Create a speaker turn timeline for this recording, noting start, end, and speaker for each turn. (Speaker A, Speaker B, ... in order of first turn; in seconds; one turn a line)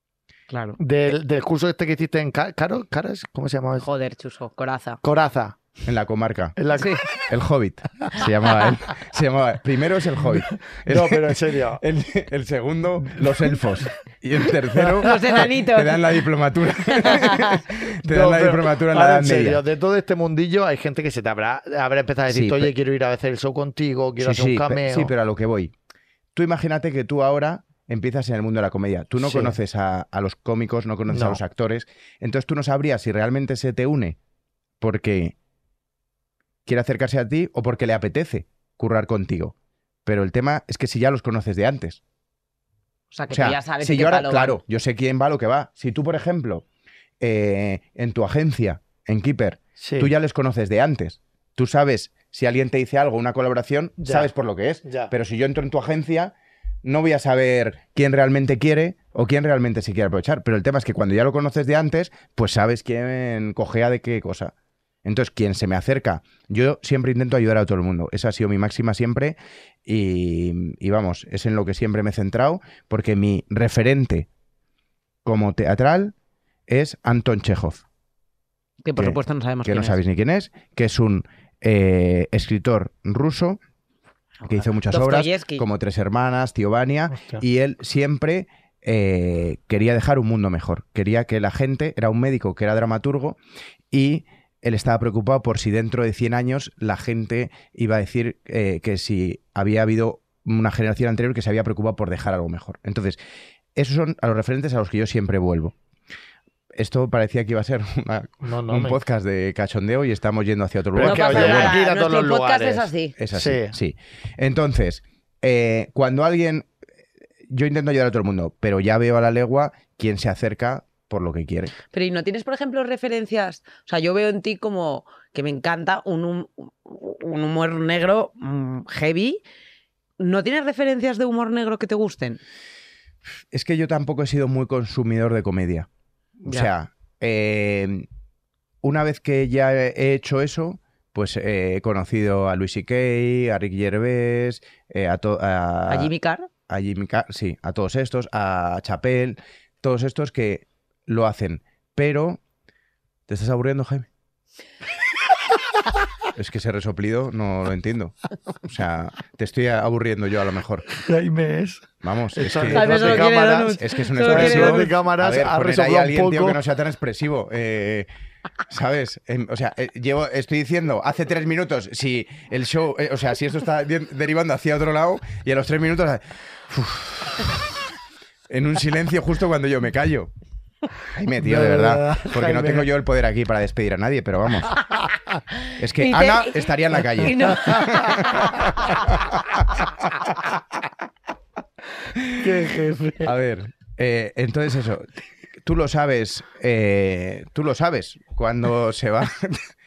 Speaker A: 0.5-0.8
Speaker B: 0.8-3.9
Speaker A: 3.8-5.0
Speaker B: 5.0-5.6
Speaker C: 5.8-6.6
Speaker B: 6.6-7.2
Speaker A: 6.8-7.0
Speaker C: 7.1-19.6
Speaker B: 10.7-11.8
Speaker A: 15.0-16.0
Speaker A: 16.9-17.6
Speaker B: 18.0-25.1
Speaker C: 22.3-22.7
Speaker C: 24.2-25.7
Speaker C: 26.4-34.2
Speaker B: 29.2-29.6
Speaker B: 31.1-31.4
Speaker C: 34.8-35.4
Speaker C: 36.6-39.5
Speaker C: 40.1-42.0
Speaker A: 43.1-44.6
Speaker C: 43.3-46.6
Speaker C: 47.2-64.5
Speaker B: 49.8-50.1
Speaker B: 54.0-54.3
Speaker B: 54.9-55.1
Speaker C: 65.0-74.3
Speaker C: 75.2-76.1
Speaker C: 76.7-77.8
Speaker A: 78.8-80.0
Speaker C: 79.0-83.6
Speaker A: 84.4-85.6
Speaker C: 84.5-93.4
Speaker B: 87.1-87.4
Speaker C: 93.9-103.2
Speaker C: 103.8-105.8
Speaker C: 106.8-111.8
Speaker B: 108.4-109.0
Speaker B: 111.0-113.7
Speaker A: 111.0-113.2
Speaker C: 113.2-116.7
Speaker C: 117.5-121.7
Speaker A: 121.9-129.4
Speaker A: 130.2-132.4
Speaker C: 133.5-135.9
Speaker C: 136.4-138.1
Speaker C: 138.8-146.1
Speaker A: 145.9-146.5
Speaker C: 146.7-152.4
Speaker C: 153.3-154.1
Speaker C: 156.3-160.9
Speaker B: 160.9-166.6
Speaker C: 162.0-168.1
Speaker A: 162.7-164.9
Speaker C: 168.7-177.9
Speaker C: 178.5-180.3
Speaker C: 181.1-184.8
Speaker B: 181.4-182.9
Speaker C: 185.8-189.9
Speaker A: 186.0-188.5
Speaker C: 192.2-192.4
Speaker B: 192.3-193.3
Speaker C: 193.2-195.1
Speaker C: 195.6-199.7